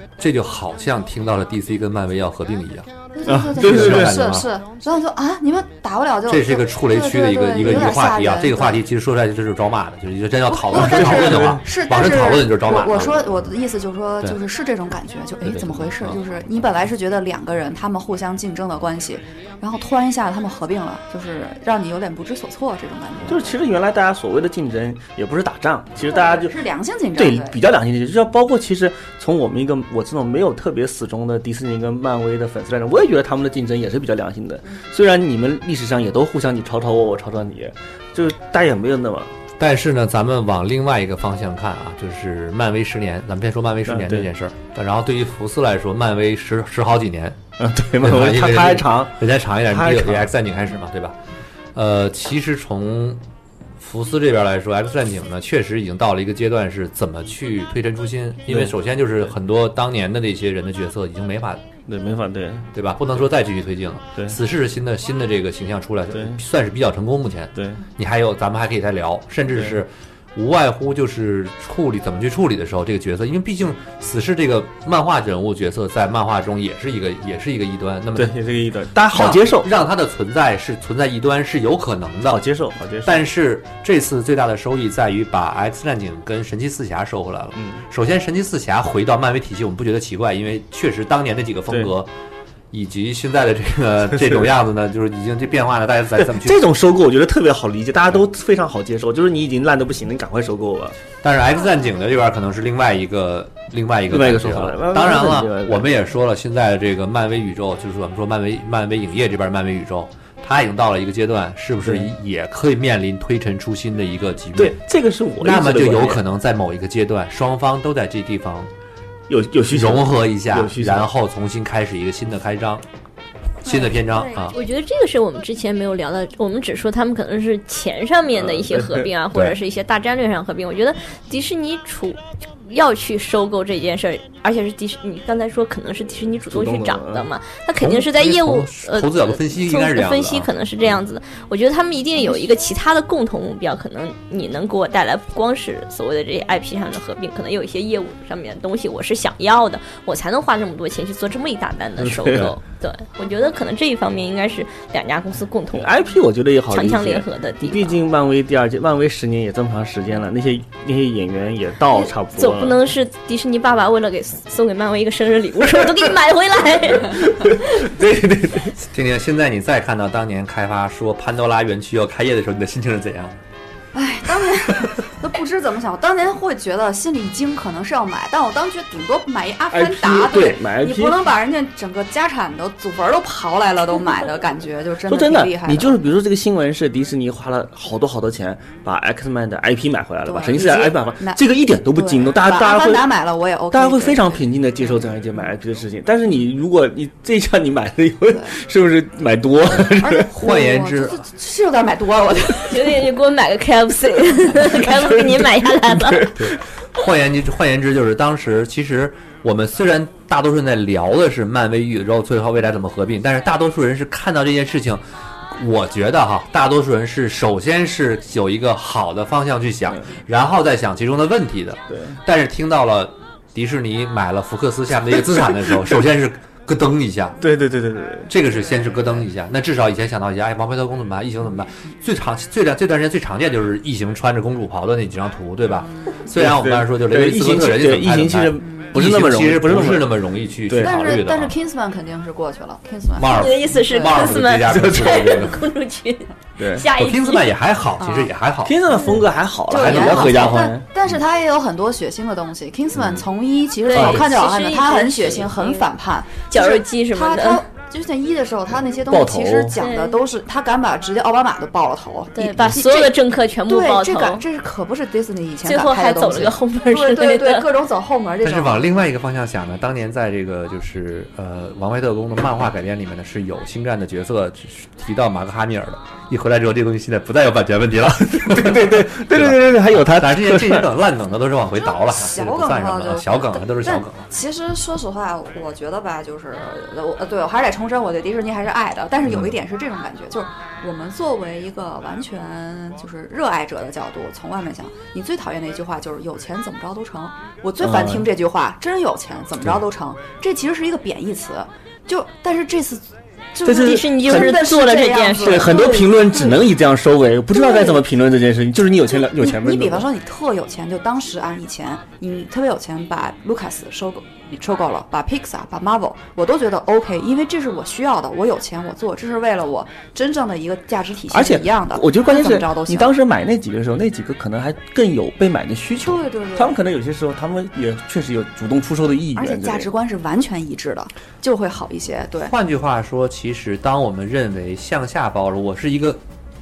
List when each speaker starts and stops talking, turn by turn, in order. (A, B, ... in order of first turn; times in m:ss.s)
0:00.2-0:02.9 A
0:03.1-0:08.8 B
0:03.2-0:04.2 C
0:03.5-0:04.5 A
0:06.3-0:13.4 A
0:10.5-0:23.5 B
0:10.7-0:11.6 C
0:15.5-0:16.2 A
0:23.3-0:26.6 C
0:26.0-0:27.6 B
0:27.2-0:39.3 C
0:39.6-0:47.4 A
0:43.9-0:44.3 C
0:47.6-0:49.2 C
0:48.0-0:51.2 A
0:49.7-0:50.3 C
0:51.8-0:53.2 A
0:53.8-1:01.6 A
1:01.9-1:02.7 C
1:02.7-1:18.4 A
1:06.1-1:06.4 C
1:07.6-1:07.8 C
1:18.2-1:19.7 C
1:19.0-1:22.4 A
1:22.3-1:23.3 C
1:23.0-1:32.1 A
1:27.6-1:27.8 C
1:32.7-1:36.7 A
1:36.2-1:41.0 C
1:41.2-1:54.8 A
1:44.1-1:45.9 C
1:54.6-1:56.2 C
1:55.4-1:58.7 A
1:59.3-2:01.1 C
1:59.7-2:02.8 A
2:03.6-2:04.6 A
2:04.3-2:35.9 D
2:08.4-2:09.1 C
2:16.5-2:17.3 C
2:17.8-2:20.5 A
2:35.7-2:42.8 C
2:36.7-2:38.0 D
2:41.9-2:47.6 D
2:47.0-2:48.8 C
2:48.9-2:53.4 A
2:53.9-3:06.0 B
2:59.7-3:01.2 C
3:05.1-3:13.1 C
3:10.2-3:11.4 B
3:11.9-3:14.4 B
3:13.7-3:20.3 C
3:18.3-3:18.6 B
3:20.0-3:23.0 B
3:20.3-3:21.2 A
3:22.7-3:26.3 D
3:24.6-3:26.6 C
3:26.4-3:47.4 A
3:41.9-3:42.2 C
3:47.4-3:48.3 C
3:48.3-4:01.5 A
3:48.7-3:49.1 B
3:56.4-4:00.2 C
3:58.6-3:58.9 B
4:00.7-4:01.0 C
4:00.8-4:04.2 B
4:03.2-4:05.6 A
4:03.3-4:07.5 D
4:04.7-4:05.2 C
4:06.6-4:06.9 C
4:07.0-4:08.8 A
4:08.0-4:08.3 B
4:08.6-4:10.9 C
4:09.7-4:23.1 B
4:09.8-4:10.4 A
4:13.9-4:15.9 D
4:13.9-4:14.3 C
4:16.5-4:17.6 D
4:19.1-4:19.8 C
4:19.8-4:20.2 D
4:22.4-4:24.4 D
4:23.7-4:29.0 B
4:25.6-4:27.7 D
4:28.4-4:44.2 A
4:38.3-4:40.9 C
4:41.8-5:06.6 B
4:57.8-4:58.3 C
5:03.6-5:10.1 C
5:03.7-5:06.0 D
5:07.5-5:08.0 B
5:09.4-5:23.1 B
5:21.3-5:29.9 C
5:26.0-5:26.8 B
5:29.4-5:32.5 B
5:32.4-5:36.2 A